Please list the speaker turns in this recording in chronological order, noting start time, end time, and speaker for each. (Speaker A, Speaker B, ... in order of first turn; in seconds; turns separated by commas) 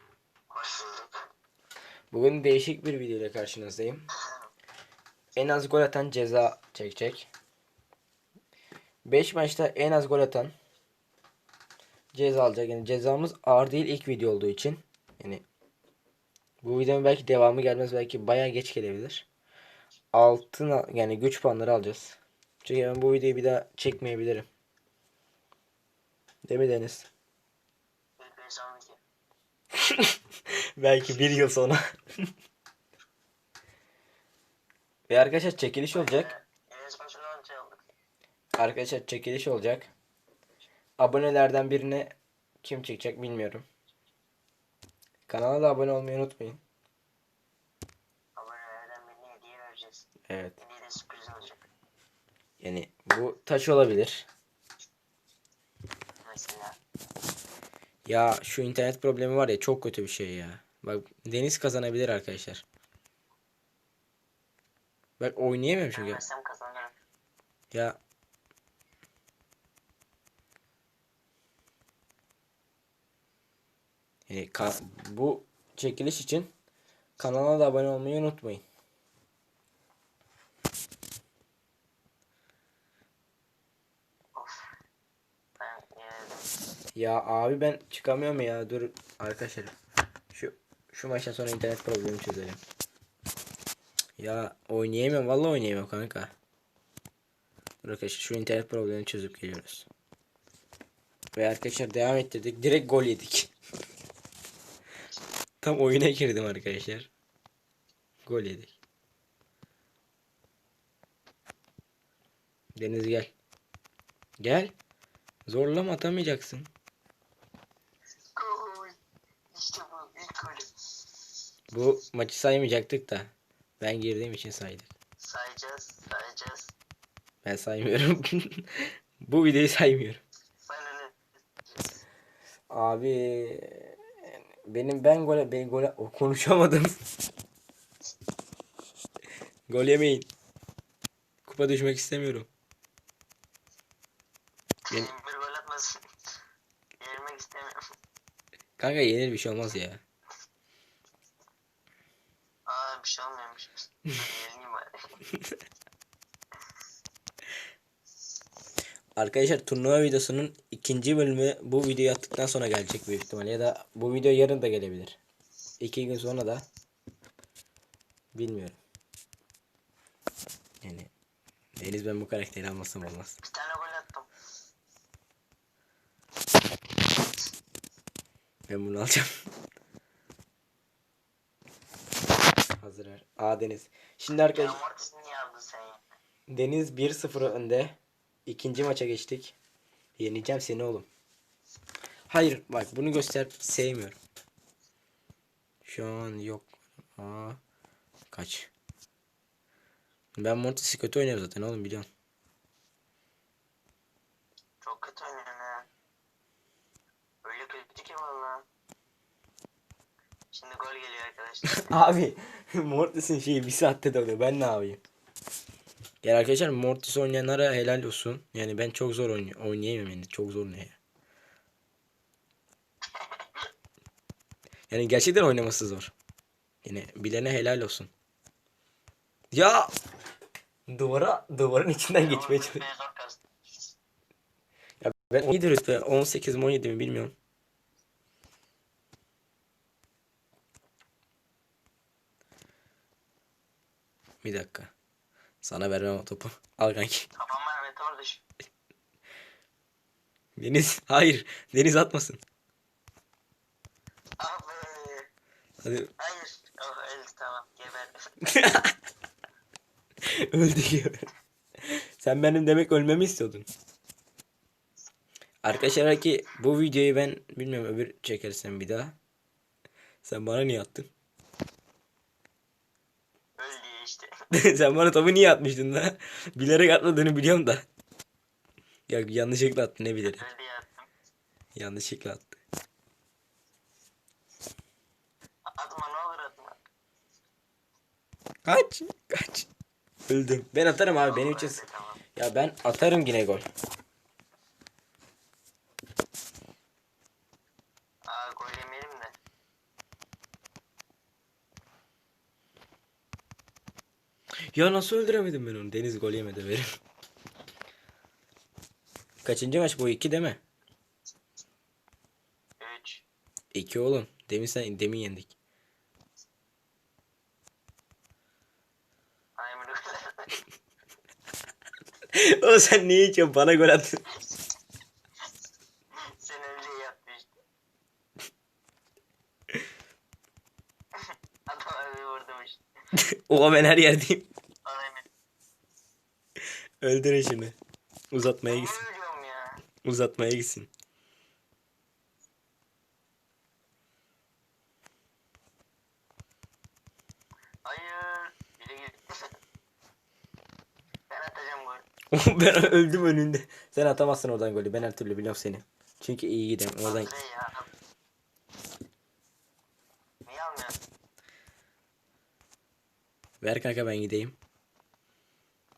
Speaker A: 0.5-1.2, Speaker B: 2.1-4.0, Speaker B: 5.4-7.3, Speaker B: 9.1-10.5, Speaker B: 12.1-15.4, Speaker B: 16.6-19.3, Speaker B: 20.1-24.5, Speaker B: 26.5-27.1, Speaker A: 28.2-29.0, Speaker B: 29.8-30.2, Speaker B: 30.8-32.3, Speaker B: 35.1-36.3, Speaker A: 35.9-37.8, Speaker B: 38.6-39.9, Speaker B: 41.0-43.7, Speaker B: 45.3-46.6, Speaker A: 48.4-51.6, Speaker B: 50.3-50.6, Speaker B: 52.6-54.3, Speaker A: 56.2-56.8, Speaker B: 58.1-62.6, Speaker B: 65.2-66.2, Speaker A: 65.9-67.0, Speaker B: 67.7-68.0, Speaker B: 74.3-76.5, Speaker B: 77.2-78.6, Speaker A: 84.3-84.6, Speaker A: 85.6-86.4, Speaker B: 87.0-89.8, Speaker B: 90.3-92.6, Speaker B: 94.2-96.3, Speaker B: 97.8-99.9, Speaker B: 101.3-103.5, Speaker B: 105.6-107.1, Speaker B: 108.3-108.7, Speaker B: 112.8-113.3, Speaker B: 114.4-114.7, Speaker B: 115.5-116.7, Speaker A: 118.4-119.0, Speaker A: 119.5-120.9, Speaker B: 121.7-124.9, Speaker A: 125.2-126.7, Speaker B: 127.4-130.2, Speaker A: 130.6-131.2, Speaker B: 132.7-134.0, Speaker B: 134.7-136.9, Speaker B: 139.7-140.3, Speaker B: 141.4-142.5, Speaker A: 144.9-146.0, Speaker A: 147.0-147.8, Speaker B: 148.8-150.0, Speaker A: 152.7-155.1, Speaker B: 159.2-165.2, Speaker B: 165.8-166.7, Speaker B: 168.3-168.8, Speaker B: 170.8-171.1, Speaker B: 171.8-173.4, Speaker A: 173.4-174.3, Speaker B: 178.7-179.3, Speaker B: 182.8-184.8, Speaker A: 184.5-186.1, Speaker B: 186.5-189.6, Speaker B: 190.2-191.1, Speaker B: 192.3-194.2, Speaker B: 195.8-197.6, Speaker B: 198.3-198.7, Speaker B: 200.4-202.1, Speaker A: 204.8-205.9, Speaker A: 207.4-208.6, Speaker A: 210.5-211.7, Speaker B: 211.7-215.0, Speaker B: 216.2-221.0, Speaker A: 223.2-223.6, Speaker B: 224.9-226.1, Speaker B: 226.8-228.1, Speaker B: 229.5-229.9, Speaker B: 230.9-232.8, Speaker A: 232.2-233.4, Speaker B: 235.0-237.3, Speaker B: 244.4-244.9, Speaker B: 245.6-247.3, Speaker A: 247.4-248.4, Speaker B: 250.6-252.4, Speaker A: 254.4-255.3, Speaker B: 255.8-256.1, Speaker A: 256.2-258.3, Speaker B: 258.4-258.9, Speaker B: 260.3-261.3, Speaker B: 261.9-263.7, Speaker B: 265.6-269.1, Speaker A: 265.7-266.0, Speaker B: 270.2-271.1, Speaker A: 273.6-274.3, Speaker B: 274.5-277.8, Speaker B: 279.1-280.4, Speaker A: 280.2-281.1, Speaker B: 281.8-282.6, Speaker A: 285.7-286.8, Speaker B: 288.6-289.7, Speaker B: 290.3-291.8, Speaker A: 291.2-292.2, Speaker B: 292.4-293.6, Speaker A: 298.3-299.4, Speaker B: 304.7-306.9, Speaker B: 309.4-310.6, Speaker A: 312.8-313.2, Speaker B: 313.7-315.5, Speaker A: 319.6-320.6, Speaker B: 322.3-324.2, Speaker A: 326.4-327.6, Speaker A: 331.2-332.8, Speaker B: 333.2-334.5, Speaker A: 334.9-335.2, Speaker B: 337.0-337.8, Speaker B: 338.3-339.0, Speaker A: 338.7-339.8, Speaker B: 340.0-340.9, Speaker A: 347.9-349.5, Speaker A: 351.3-352.1, Speaker B: 352.3-357.3, Speaker A: 357.0-357.9, Speaker A: 360.5-361.0, Speaker B: 363.6-364.6